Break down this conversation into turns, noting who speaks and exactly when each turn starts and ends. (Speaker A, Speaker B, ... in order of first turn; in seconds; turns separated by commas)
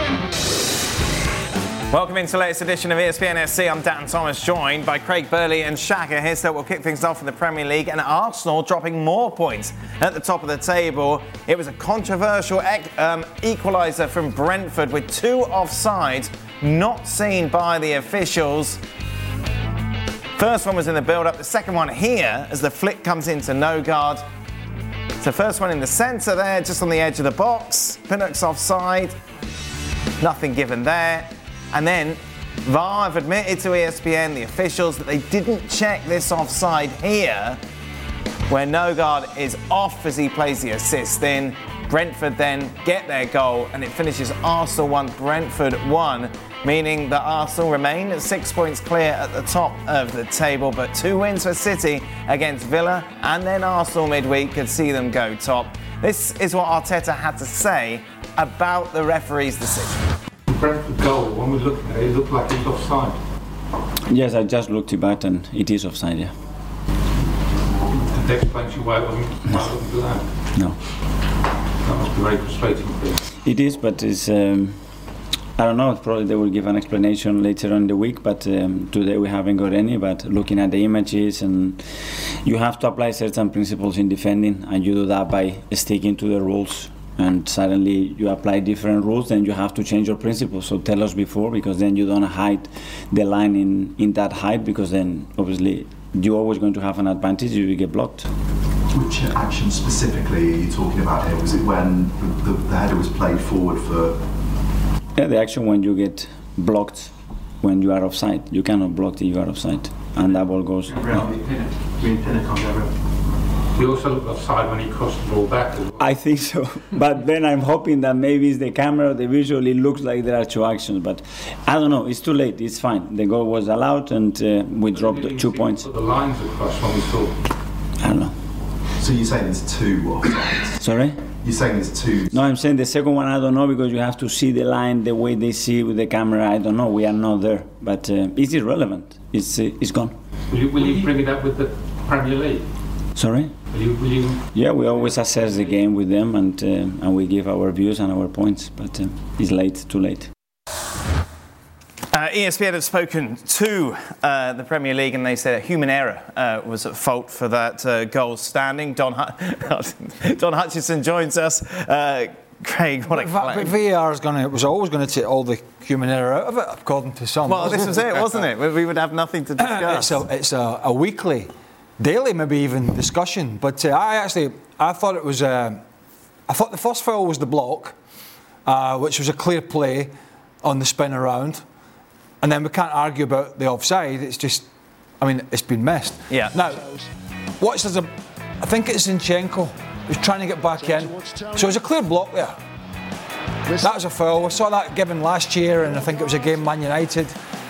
Speaker A: 1.9-18.8, Speaker A: 20.4-24.2, Speaker A: 25.2-29.1, Speaker A: 30.2-37.6, Speaker A: 38.5-60.0, Speaker B: 60.5-63.2, Speaker C: 64.1-66.3, Speaker B: 67.9-70.2, Speaker B: 71.8-73.2, Speaker C: 73.4-74.8, Speaker C: 75.6-98.3, Speaker D: 98.9-104.2, Speaker C: 105.2-111.0, Speaker B: 110.9-111.5, Speaker D: 111.0-111.5, Speaker D: 112.1-112.5, Speaker B: 113.7-116.0, Speaker C: 116.0-125.9, Speaker B: 124.9-127.4, Speaker C: 128.0-128.3, Speaker D: 129.0-130.8, Speaker C: 130.8-131.2, Speaker D: 131.4-132.3, Speaker C: 132.3-140.2, Speaker B: 140.5-142.6, Speaker C: 143.2-143.5, Speaker B: 143.7-144.4, Speaker C: 144.5-150.3, Speaker B: 145.1-145.7, Speaker A: 152.1-163.7, Speaker E: 163.1-168.1, Speaker A: 167.5-170.2, Speaker E: 169.6-175.8, Speaker E: 176.5-177.9, Speaker E: 178.6-181.6, Speaker E: 182.4-184.7, Speaker E: 185.2-186.9, Speaker A: 186.3-186.6, Speaker E: 187.6-192.6, Speaker E: 193.8-197.4